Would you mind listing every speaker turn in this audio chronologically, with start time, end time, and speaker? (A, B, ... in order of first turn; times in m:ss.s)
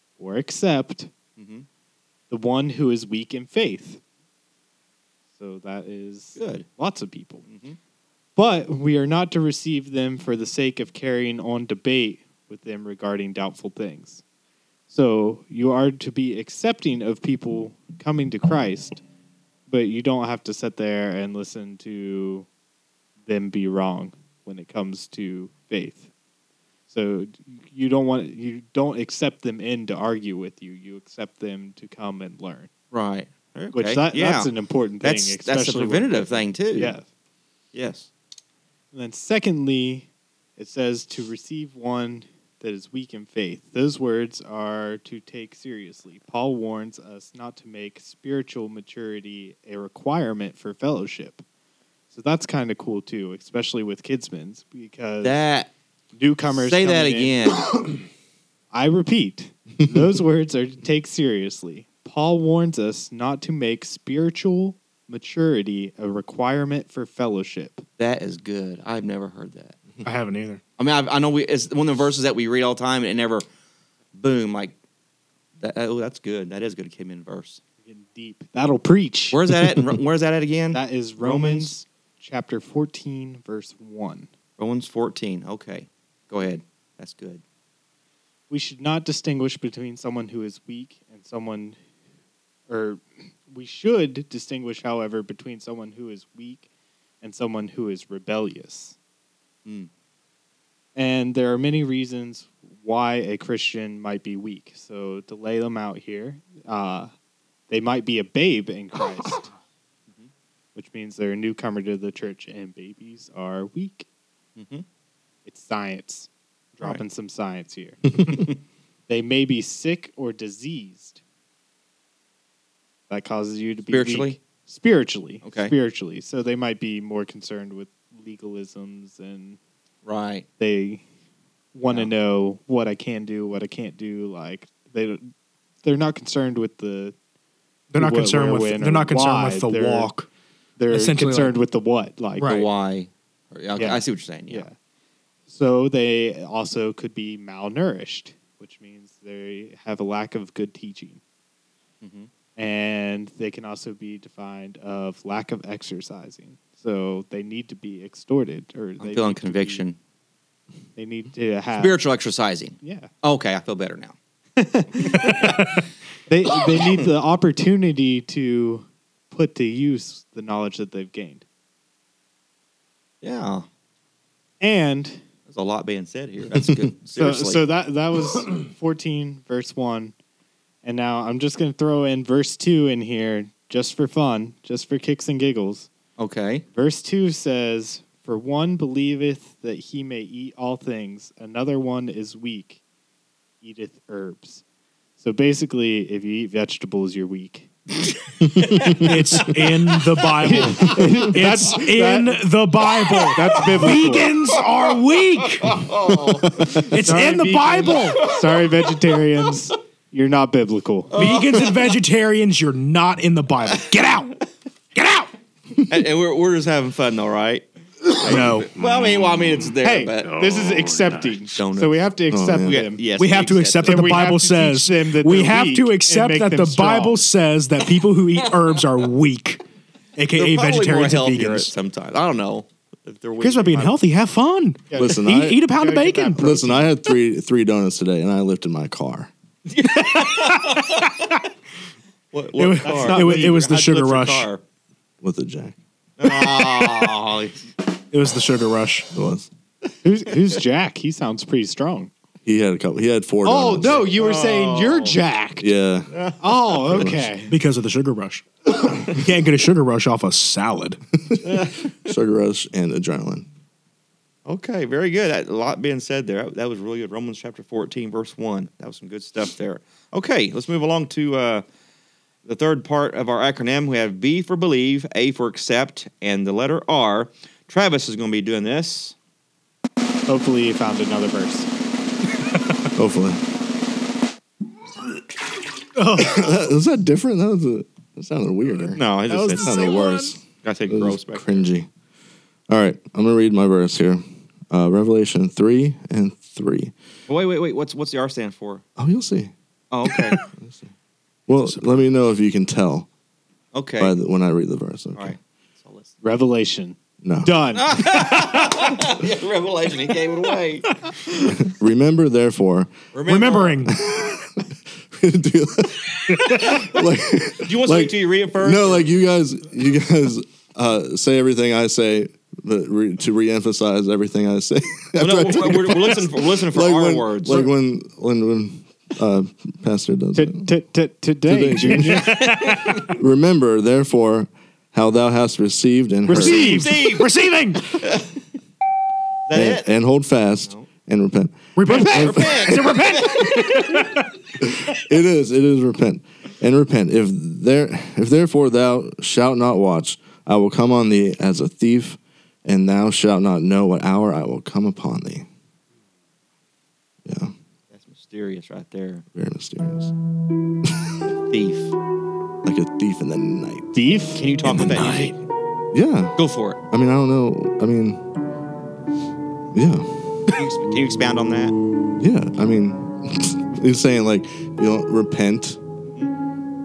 0:00.2-0:01.1 A
0:01.4-0:01.7 B
0:02.3-0:04.0 A
0:05.4-0:07.4 A
0:06.4-0:06.7 B
0:07.5-0:07.8 B
0:08.4-0:14.2 A
0:14.9-0:19.0 A
0:19.7-0:22.5 A
0:23.3-0:26.1 A
0:26.9-0:32.7 A
0:32.9-0:37.0 B
0:33.7-0:37.1 A
0:37.7-0:38.1 B
0:38.9-0:51.4 A
0:52.1-0:55.4 A
0:55.2-0:55.7 B
0:56.2-0:57.6 A
0:56.5-0:57.7 B
0:58.7-1:07.8 A
1:08.0-1:09.8 B
1:10.0-1:10.6 C
1:10.8-1:13.4 B
1:14.1-1:14.8 B
1:15.6-1:17.6 B
1:17.8-1:19.6 A
1:19.3-1:21.7 B
1:20.7-1:24.3 A
1:24.6-1:27.4 B
1:28.5-1:31.8 A
1:32.7-1:36.7 A
1:37.2-1:39.0 A
1:41.0-1:47.1 A
1:47.7-1:49.5 A
1:50.8-1:54.1 A
1:54.6-1:54.8 B
1:55.5-1:58.5 A
1:58.3-1:58.5 B
1:59.1-2:01.2 A
2:03.1-2:09.6 A
2:03.9-2:04.4 B
2:05.4-2:05.7 B
2:10.0-2:10.5 B
2:10.6-2:11.0 A
2:11.7-2:15.3 A
2:15.8-2:17.2 A
2:17.9-2:20.3 C
2:18.0-2:20.1 A
2:20.8-2:22.6 A
2:20.9-2:21.6 C
2:22.4-2:22.6 C
2:22.4-2:24.7 B
2:23.8-2:24.8 A
2:25.5-2:31.2 A
2:32.0-2:32.3 B
2:32.6-2:39.8 A
2:39.0-2:40.0 B
2:41.0-2:42.0 A
2:41.8-2:44.2 B
2:42.8-2:43.1 A
2:44.6-2:45.6 A
2:45.1-2:45.7 B
2:46.3-2:51.4 A
2:53.2-2:53.7 B
2:54.6-2:55.2 A
2:55.5-2:57.6 B
2:57.2-3:00.1 A
3:00.8-3:05.9 A
3:06.2-3:06.6 B
3:06.7-3:12.8 A
3:13.6-3:14.6 A
3:15.2-3:17.7 A
3:18.5-3:19.0 D
3:18.9-3:25.8 C
3:20.4-3:22.4 A
3:23.3-3:24.4 A
3:25.6-3:26.7 B
3:26.7-3:28.3 C
3:26.9-3:31.1 A
3:31.1-3:31.9 B
3:31.2-3:34.4 C
3:35.0-3:35.3 C
3:35.9-3:40.4 B
3:38.2-3:38.8 C
3:39.8-3:43.0 A
3:41.6-3:42.0 B
3:42.3-3:42.8 D
3:42.6-3:44.2 B
3:43.2-3:49.6 C
3:43.8-3:47.2 A
3:50.2-3:51.7 C
3:50.4-3:54.0 B
3:53.4-3:56.5 C
3:54.9-3:56.9 A
3:55.0-3:55.6 D
3:56.4-3:59.3 D
3:59.7-4:01.3 B
4:00.0-4:01.0 C
4:02.3-4:04.6 B
4:02.6-4:04.5 C
4:02.8-4:03.6 A
4:05.2-4:05.8 D
4:06.2-4:07.6 B
4:08.1-4:09.1 C
4:09.1-4:09.5 D
4:10.0-4:12.1 A
4:12.4-4:14.1 D
4:13.4-4:15.7 A
4:14.1-4:15.2 B
4:15.6-4:16.1 D
4:16.1-4:17.0 B
4:16.4-4:17.5 A
4:16.9-4:17.2 D
4:17.5-4:21.0 C
4:21.3-4:23.5 D
4:21.4-4:21.9 B
4:24.5-4:31.6 B
4:32.4-4:39.2 B
4:40.3-4:41.7 A
4:43.0-4:43.4 D
4:46.0-4:46.4 C
4:46.2-4:49.0 D
4:48.9-4:51.7 B
4:49.3-4:50.3 C
4:49.6-4:51.9 D
4:52.7-4:56.9 D
4:57.3-4:58.8 B
4:59.0-4:59.5 D
4:59.9-5:00.4 B
5:00.3-5:00.9 D
5:01.5-5:03.1 D
5:03.7-5:04.2 B
5:04.0-5:05.4 D
5:05.2-5:06.2 B
5:06.2-5:08.1 A
5:07.2-5:07.6 D
5:07.8-5:10.9 B
5:11.5-5:13.0 D
5:13.1-5:13.9 B
5:13.3-5:14.0 C
5:13.9-5:30.7 D
5:16.6-5:16.9 B
5:17.5-5:19.1 B
5:25.2-5:27.7 B
5:30.4-5:32.4 A
5:31.5-5:36.8 D
5:32.3-5:33.1 C
5:32.6-5:32.9 B
5:36.3-5:38.0 C
5:36.3-5:36.8 A
5:36.3-5:37.3 B
5:37.9-5:38.3 B
5:39.5-5:39.9 B
5:39.5-5:42.9 D
5:41.8-5:44.3 C
5:41.9-5:43.9 B
5:44.7-5:55.5 D
5:57.2-5:57.5 D
5:57.9-5:59.2 B
5:59.4-6:00.1 D
6:00.8-6:01.1 D
6:01.5-6:02.0 B
6:02.6-6:03.9 D
6:03.9-6:04.4 A
6:04.4-6:05.4 B
6:04.8-6:05.3 C
6:05.9-6:06.4 D
6:06.4-6:06.8 B
6:06.9-6:08.2 D
6:09.7-6:10.6 D
6:10.5-6:11.7 B
6:12.2-6:15.8 D